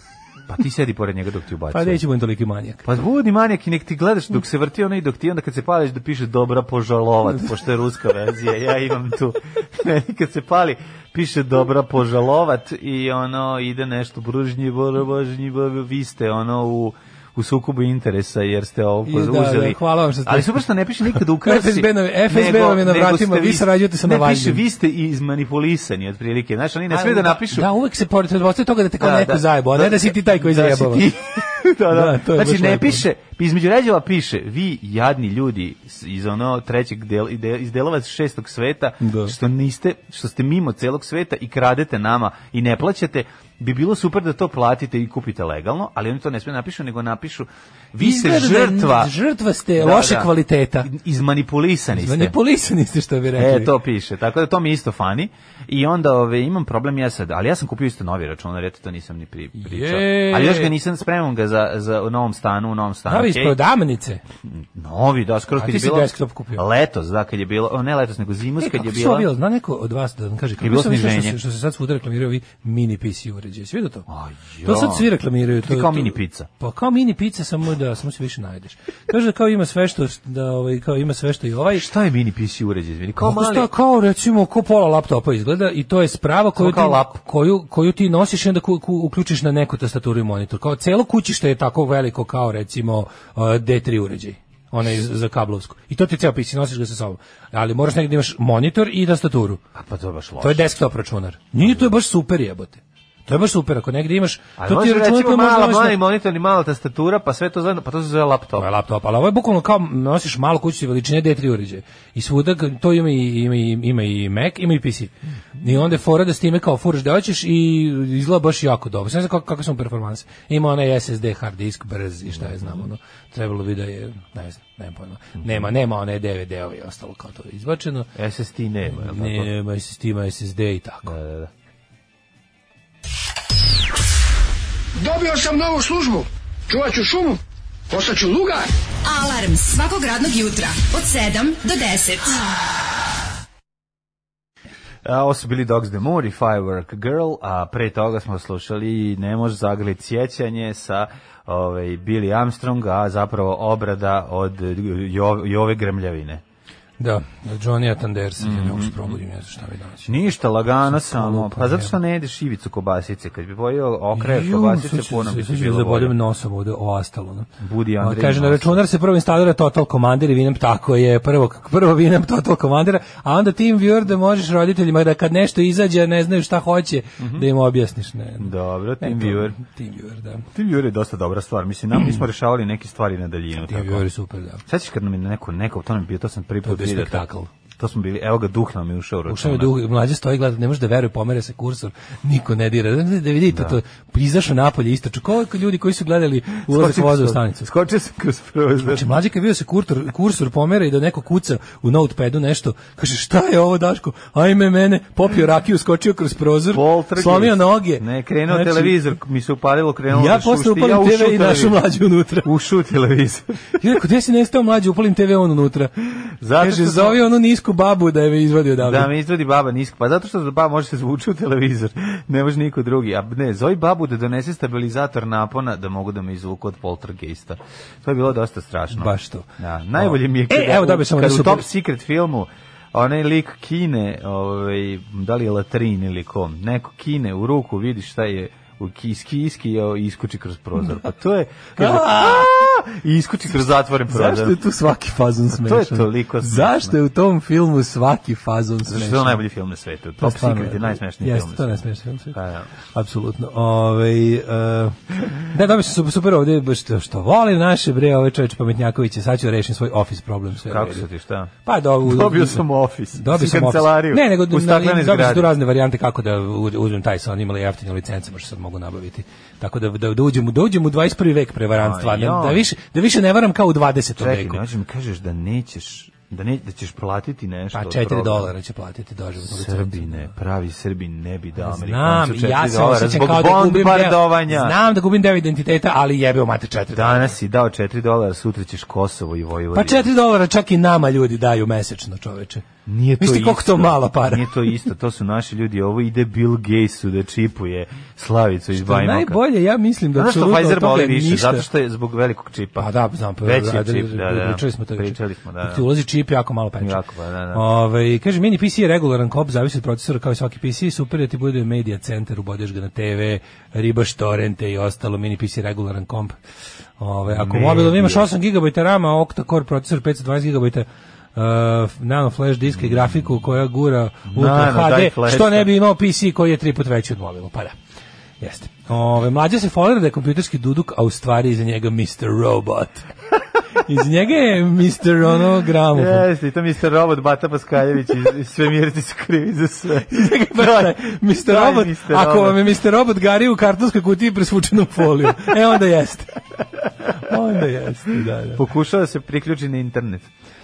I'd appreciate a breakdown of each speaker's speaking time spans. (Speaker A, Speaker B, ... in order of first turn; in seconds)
Speaker A: 0.5-2.0, 2.8-27.7, 29.0-49.1, 49.8-52.3, 53.4-63.6, 64.5-69.3, 70.6-71.4, 74.1-75.1, 75.6-76.5, 81.7-83.7, 86.5-87.2, 99.7-100.7, 101.6-101.9, 104.6-108.7, 122.4-122.7, 128.1-129.5, 131.0-131.5, 145.0-156.4, 158.4-159.2, 160.0-166.1, 167.6-168.8, 177.2-177.5, 178.4-179.6, 180.5-184.1, 184.7-187.2, 187.8-189.7, 193.5-193.8, 196.7-199.1, 206.7-211.8, 212.4-213.6, 216.4-217.2, 218.8-244.6, 245.5-246.9, 248.8-252.7, 260.6-265.5, 271.8-272.6, 274.2-278.5, 279.4-284.8, 286.9-290.1, 292.9-299.4, 300.1-302.9, 303.4-305.9, 306.8-307.6, 317.3-318.3, 322.7-323.3, 324.3-325.7, 335.9-342.7, 348.6-350.3
Speaker B: 1.7-2.8, 19.1-20.6, 21.1-24.6, 26.9-31.1, 31.9-33.0, 39.0-39.3, 48.0-50.9, 51.9-53.7, 59.5-60.7, 63.1-64.2, 65.6-66.6, 68.6-74.0, 74.6-81.8, 83.2-99.6, 100.4-106.0, 108.5-128.1, 128.9-131.1, 157.0-160.1, 160.9-161.9, 164.1-167.5, 168.0-180.4, 183.6-184.6, 186.6-187.5, 189.3-197.7, 198.8-208.9, 210.1-212.5, 213.8-215.9, 216.6-219.1, 228.9-231.7, 241.8-242.5, 244.1-249.4, 250.2-252.4, 252.9-261.0, 261.6-262.6, 263.1-274.6, 277.7-280.3, 281.6-287.3, 289.7-292.6, 293.2-294.7, 298.7-301.6, 302.8-307.0, 307.5-316.4, 317.0-327.7, 328.4-333.1, 333.8-336.3, 340.1-346.4, 347.1-348.6
Speaker C: 134.9-138.7
Speaker D: 139.0-142.4